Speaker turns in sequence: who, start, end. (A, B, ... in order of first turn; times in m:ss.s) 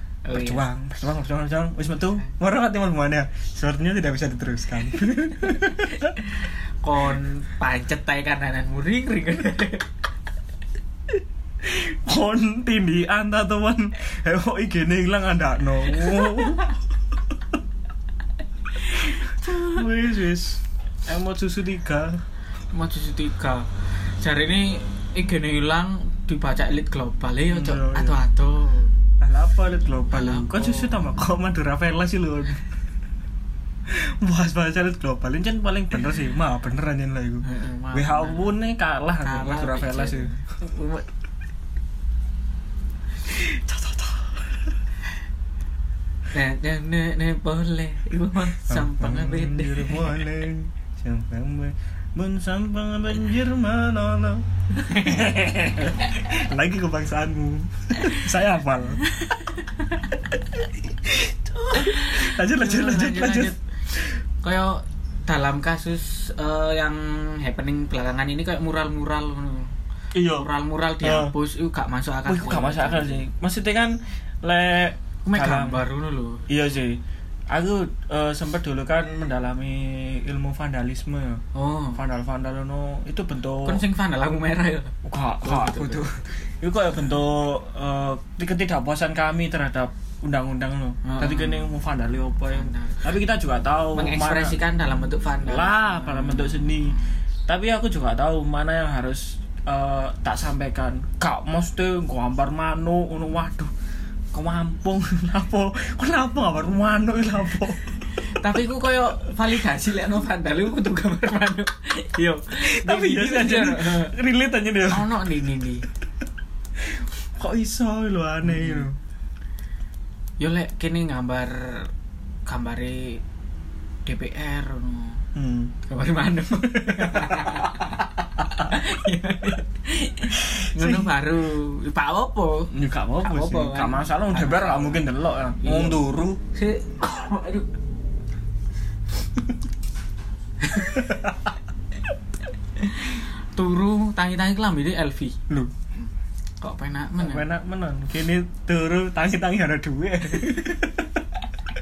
0:00.2-0:00.6 A
0:00.3-0:06.2 B
0:06.2-0:09.9 A
0:11.6-0:16.8 B
0:18.9-0:19.8 A
0:18.9-0:22.2 B
0:22.7-0:28.9 A
0:27.5-0:28.2 B
0:29.2-0:32.6 B
0:30.1-0:31.0 A
0:33.8-0:40.4 B
0:37.4-0:38.5 A
0:39.2-0:41.1 A
0:43.2-0:44.7 B
0:46.3-0:50.2 A
0:48.7-0:59.0 B
0:54.8-0:55.4 A
0:59.1-1:00.1 A
1:01.0-1:04.2 B
1:01.6-1:03.6 A
1:04.4-1:09.7 A
1:10.1-1:10.5 B
1:10.2-1:13.2 A
1:11.0-1:11.3 B
1:12.2-1:15.8 B
1:15.2-1:16.4 A
1:16.5-1:21.4 B
1:21.5-1:22.0 A
1:21.9-1:23.8 B
1:23.6-1:26.1 A
1:25.0-1:34.6 B
1:31.0-1:31.7 A
1:32.5-1:33.0 A
1:33.9-1:37.0 A
1:35.4-1:43.7 B
1:44.3-1:48.0 B
1:48.2-1:54.2 A
1:52.6-1:55.2 B
1:54.9-1:55.9 A
1:56.8-1:59.0 B
1:58.5-1:58.9 A
2:00.4-2:01.9 A
2:02.4-2:03.2 A
2:04.0-2:05.2 A
2:05.3-2:05.7 B
2:05.8-2:15.0 A
2:06.8-2:07.8 B
2:10.4-2:11.1 B
2:12.7-2:16.4 B
2:15.6-2:16.0 A
2:16.5-2:17.7 A
2:20.6-2:21.3 A
2:22.8-2:25.4 A
2:26.6-2:27.4 A
2:27.2-2:31.2 B